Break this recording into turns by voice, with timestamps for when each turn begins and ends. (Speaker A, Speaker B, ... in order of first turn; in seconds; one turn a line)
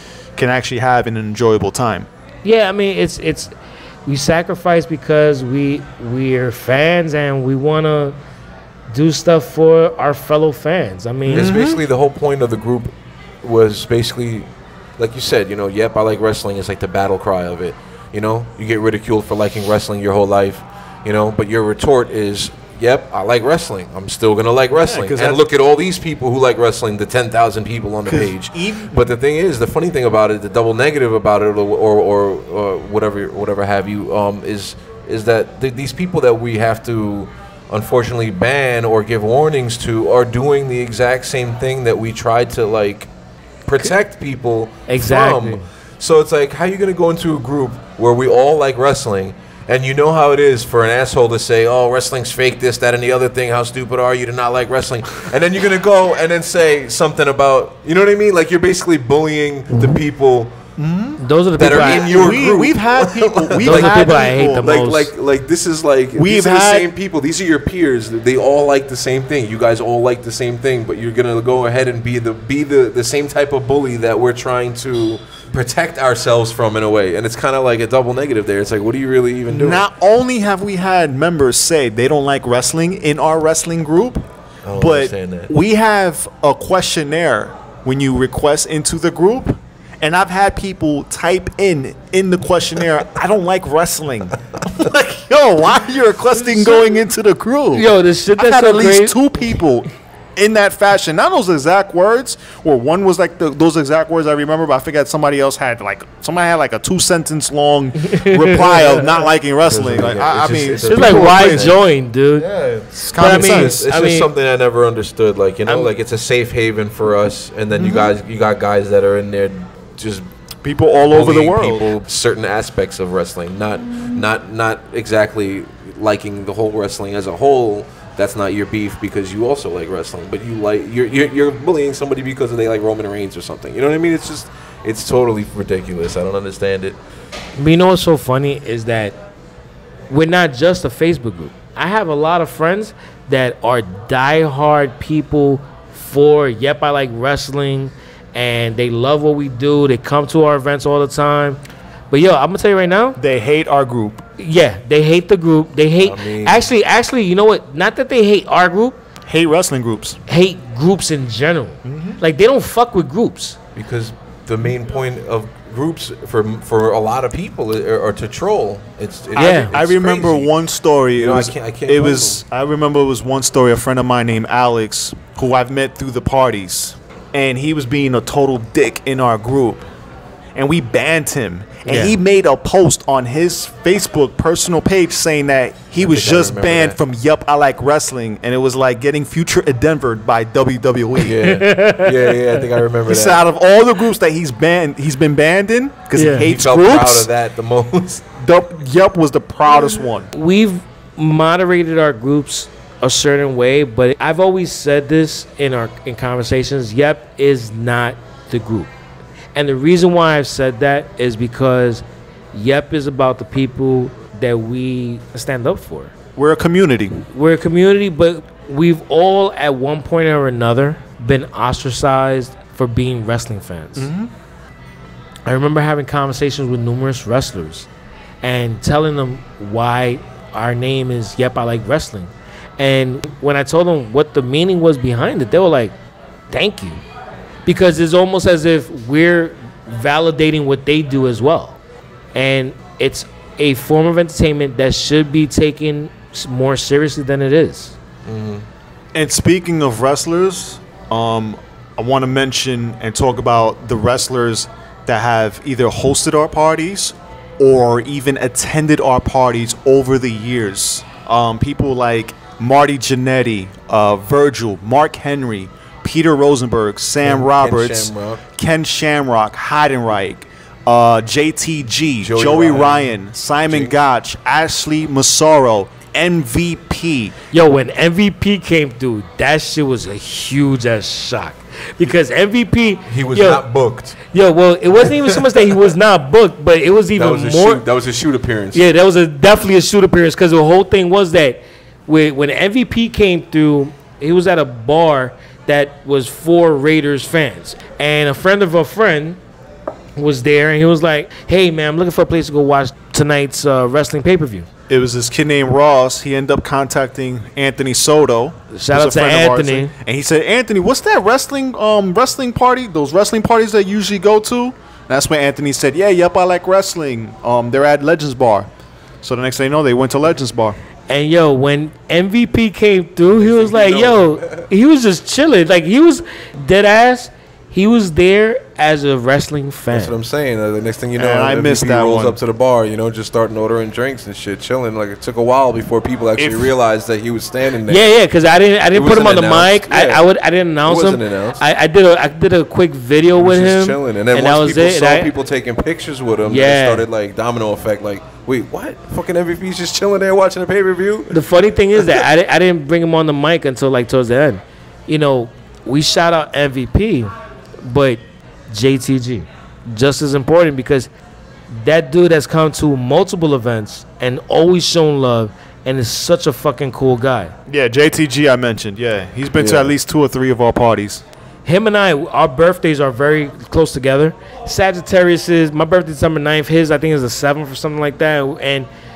Speaker A: 0.4-2.1
Speaker B: 2.4-3.5
Speaker B: 4.1-8.2
Speaker B: 8.9-11.5
Speaker A: 11.3-11.8
Speaker C: 11.3-14.5
Speaker C: 15.0-43.1
Speaker A: 24.8-25.4
Speaker A: 28.1-29.0
Speaker C: 43.7-60.6
Speaker B: 44.9-45.6
Speaker A: 60.8-64.6
Speaker B: 61.2-62.2
Speaker C: 61.6-79.8
Speaker B: 63.6-65.1
Speaker A: 66.1-66.9
Speaker A: 79.5-84.2
Speaker C: 84.7-85.5
Speaker A: 84.8-111.7
Speaker B: 96.4-96.8
Speaker B: 97.7-99.2
Speaker B: 108.0-109.0
Speaker C: 109.6-111.8
Speaker B: 110.8-112.5
Speaker C: 112.4-120.2
Speaker A: 113.0-113.8
Speaker B: 113.0-114.3
Speaker A: 117.7-118.1
Speaker A: 120.6-121.9
Speaker C: 121.1-137.0
Speaker B: 137.6-139.2
Speaker B: 140.1-151.6
Speaker B: 152.1-153.2
Speaker A: 153.2-154.2
Speaker B: 154.4-159.0
Speaker C: 156.0-156.7
Speaker A: 159.3-160.2
Speaker B: 160.3-163.6
Speaker A: 161.8-162.2
Speaker C: 163.8-170.5
Speaker A: 169.3-179.8
Speaker B: 169.4-169.8
Speaker C: 171.2-172.4
Speaker A: 180.6-191.4
Speaker B: 181.9-182.2
Speaker C: 186.0-187.0
Speaker C: 191.2-193.4
Speaker B: 191.4-192.6
Speaker A: 193.1-197.3
Speaker B: 196.1-196.5
Speaker C: 196.4-198.3
Speaker A: 198.4-200.3
Speaker B: 200.3-208.9
Speaker B: 209.6-216.1
Speaker A: 216.4-217.3
Speaker B: 217.3-224.1
Speaker A: 224.0-224.3
Speaker B: 225.5-227.9
Speaker B: 228.4-235.9
Speaker B: 236.5-237.0
Speaker B: 237.7-241.8
Speaker B: 242.3-247.9
Speaker C: 248.2-248.7
Speaker A: 249.1-277.3
Speaker C: 267.2-268.4
Speaker C: 272.2-273.1
Speaker C: 273.7-273.9
Speaker B: 277.5-283.6
Speaker C: 283.1-284.2
Speaker B: 284.2-287.8
Speaker C: 285.1-285.7
Speaker C: 287.2-288.9
Speaker B: 288.7-299.4
Speaker B: 300.2-304.7
Speaker A: 304.9-318.7
Speaker B: 308.7-309.9
Speaker A: 319.2-320.8
Speaker B: 321.1-330.1
Speaker C: 323.3-324.7
Speaker C: 329.9-338.1
Speaker A: 331.2-332.4
Speaker A: 336.4-336.7
Speaker B: 337.9-345.3
Speaker C: 338.9-340.3
Speaker C: 340.9-341.6
Speaker C: 343.4-351.3
Speaker B: 346.4-347.1
Speaker B: 351.3-361.1
Speaker B: 361.7-367.6
Speaker A: 367.7-371.2
Speaker C: 369.6-369.9
Speaker B: 371.6-378.9